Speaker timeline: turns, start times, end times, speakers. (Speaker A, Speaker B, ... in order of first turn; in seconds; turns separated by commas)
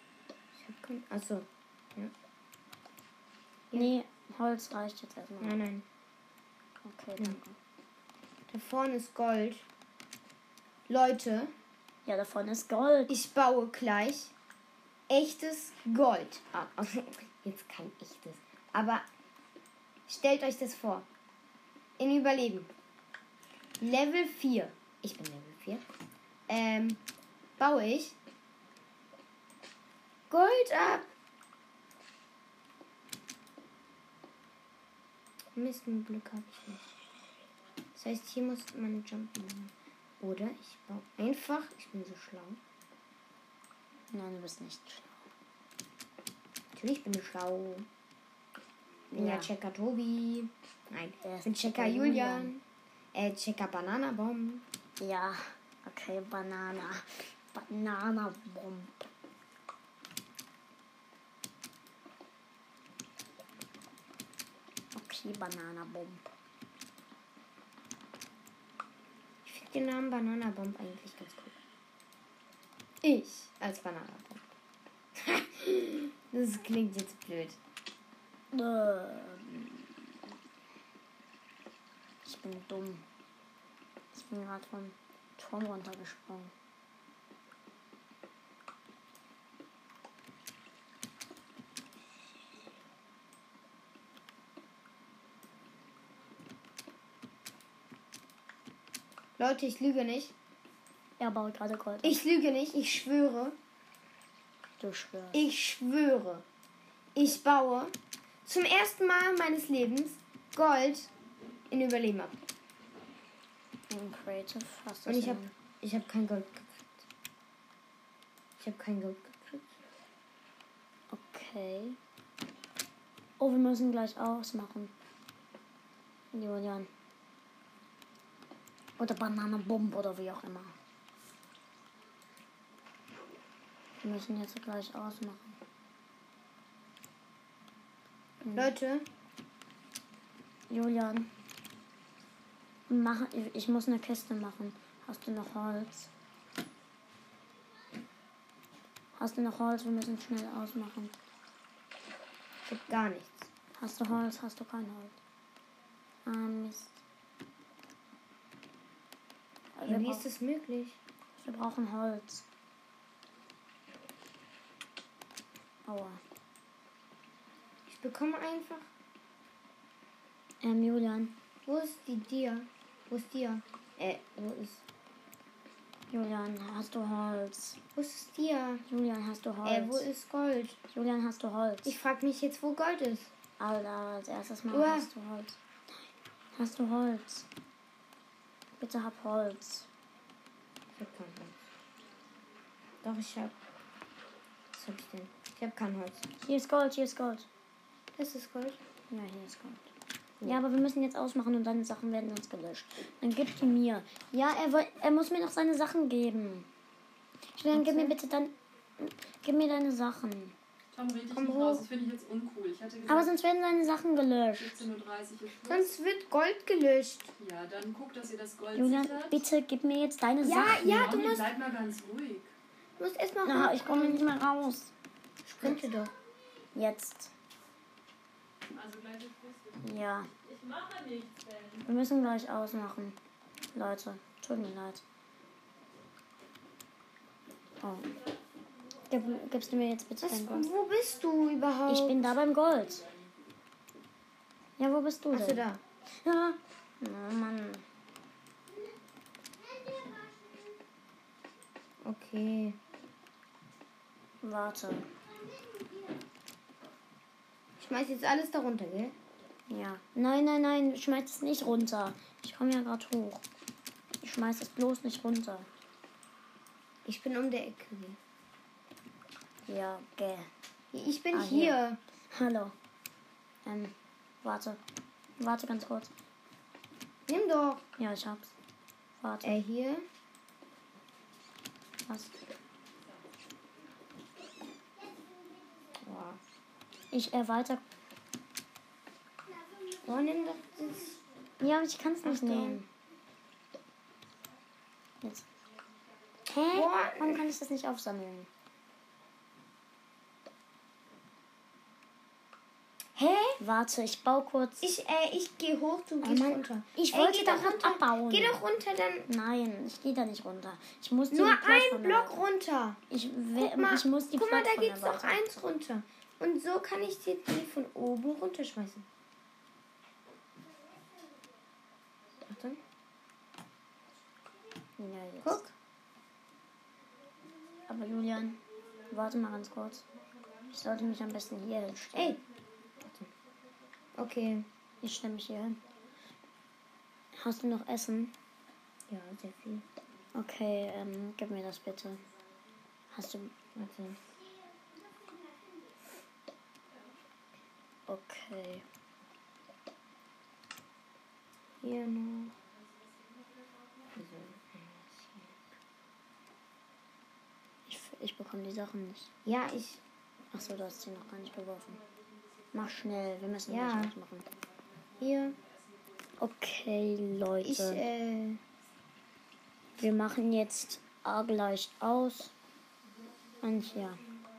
Speaker A: 0.6-2.1, Speaker B: 3.7-5.7, Speaker A: 5.4-5.8, Speaker B: 6.8-7.6, Speaker A: 8.5-9.7, Speaker A: 10.9-11.5, Speaker B: 12.1-13.2, Speaker A: 13.1-14.3, Speaker A: 15.1-19.1, Speaker A: 20.1-21.1, Speaker A: 22.0-22.7, Speaker A: 23.8-25.9, Speaker A: 26.5-27.0, Speaker A: 27.6-28.2, Speaker A: 30.3-31.1, Speaker A: 35.5-36.9, Speaker A: 38.0-42.6, Speaker B: 44.1-45.2, Speaker A: 46.7-47.9, Speaker A: 49.1-52.6, Speaker B: 49.1-49.5, Speaker B: 51.2-52.5, Speaker A: 53.1-54.6, Speaker B: 55.0-59.1, Speaker B: 64.9-66.3, Speaker A: 69.4-71.6, Speaker A: 73.0-74.5, Speaker A: 75.2-77.6, Speaker B: 78.5-80.2, Speaker B: 82.2-83.0, Speaker B: 84.1-86.5, Speaker A: 99.4-100.3, Speaker B: 101.2-102.2, Speaker A: 102.0-103.6, Speaker B: 104.8-105.5, Speaker A: 105.3-106.5, Speaker A: 107.2-107.9, Speaker A: 108.5-111.1, Speaker A: 111.7-112.4, Speaker B: 113.9-115.5, Speaker A: 115.1-117.1, Speaker A: 118.6-119.8, Speaker B: 121.1-122.0, Speaker B: 123.4-124.9, Speaker B: 126.3-126.9, Speaker B: 129.0-130.8, Speaker B: 134.0-135.6, Speaker B: 138.4-138.7, Speaker A: 138.5-139.1, Speaker B: 140.7-141.3, Speaker B: 142.9-146.1, Speaker B: 149.2-151.2, Speaker A: 152.7-153.5, Speaker B: 153.8-155.2, Speaker B: 156.2-157.0, Speaker B: 159.8-160.3, Speaker A: 159.9-161.0, Speaker B: 161.4-162.4, Speaker B: 165.9-166.2, Speaker A: 167.9-168.9, Speaker B: 170.6-171.3, Speaker A: 171.7-174.8, Speaker B: 176.1-177.8, Speaker A: 177.9-178.8, Speaker B: 178.9-180.1, Speaker A: 179.6-180.8, Speaker B: 180.9-182.0, Speaker A: 181.9-183.3, Speaker B: 183.6-185.6, Speaker A: 184.7-185.1, Speaker B: 186.5-187.5, Speaker B: 188.8-189.9, Speaker A: 190.9-191.6, Speaker A: 193.0-193.6, Speaker A: 194.7-196.3, Speaker B: 196.4-197.5, Speaker A: 198.2-198.8, Speaker B: 199.1-199.9, Speaker B: 200.4-206.7, Speaker B: 207.6-210.6, Speaker A: 207.7-208.2, Speaker C: 210.9-213.3, Speaker A: 211.3-211.9, Speaker B: 213.1-214.8, Speaker C: 214.6-216.0, Speaker A: 215.7-217.3, Speaker C: 217.4-219.5, Speaker B: 218.7-221.2, Speaker A: 220.4-221.5, Speaker C: 220.7-222.5, Speaker A: 223.0-224.2, Speaker B: 223.4-224.9, Speaker A: 225.4-226.1, Speaker B: 226.8-227.3, Speaker C: 228.7-231.9, Speaker B: 229.8-230.3, Speaker B: 231.8-233.2, Speaker B: 233.7-235.0, Speaker B: 237.8-238.1, Speaker B: 239.1-240.7, Speaker A: 240.2-242.4, Speaker B: 241.9-243.1, Speaker B: 244.8-247.8, Speaker A: 245.3-245.8, Speaker A: 252.0-252.8, Speaker B: 254.4-255.1, Speaker A: 257.8-259.1, Speaker B: 259.7-263.4, Speaker B: 264.2-265.7, Speaker A: 267.1-268.2, Speaker B: 269.7-270.5, Speaker A: 270.9-272.0, Speaker B: 271.3-272.7, Speaker B: 273.6-274.8, Speaker B: 275.4-276.1, Speaker A: 277.3-277.9, Speaker B: 278.0-278.6, Speaker B: 279.2-279.6, Speaker A: 279.4-280.1, Speaker B: 282.1-282.3, Speaker A: 285.9-286.4, Speaker B: 287.1-287.8, Speaker A: 289.9-291.2, Speaker B: 291.6-292.9, Speaker A: 292.2-292.8, Speaker B: 295.2-295.5, Speaker B: 296.5-298.5, Speaker A: 296.7-297.4, Speaker A: 303.2-303.6, Speaker B: 303.6-304.9, Speaker A: 304.8-309.3, Speaker B: 306.2-308.6, Speaker B: 309.3-312.4, Speaker A: 311.3-313.0, Speaker B: 313.1-315.5, Speaker A: 313.6-319.1, Speaker A: 322.4-322.8, Speaker B: 325.0-325.6, Speaker A: 325.4-325.7, Speaker B: 327.9-330.1, Speaker B: 330.7-332.4, Speaker A: 332.1-332.4, Speaker A: 333.0-333.3, Speaker A: 334.2-334.7, Speaker B: 335.0-335.8, Speaker B: 337.4-338.4, Speaker A: 339.1-339.9, Speaker B: 340.3-342.2, Speaker B: 343.1-343.5, Speaker A: 343.8-344.2, Speaker B: 348.1-348.9, Speaker A: 351.8-352.5, Speaker A: 354.1-355.6, Speaker B: 357.9-359.3, Speaker A: 359.4-360.0, Speaker B: 360.5-362.0, Speaker B: 362.7-364.5, Speaker A: 363.7-364.1, Speaker A: 365.2-365.6, Speaker B: 366.4-368.1, Speaker A: 367.6-368.6, Speaker B: 370.0-372.5, Speaker B: 373.6-374.2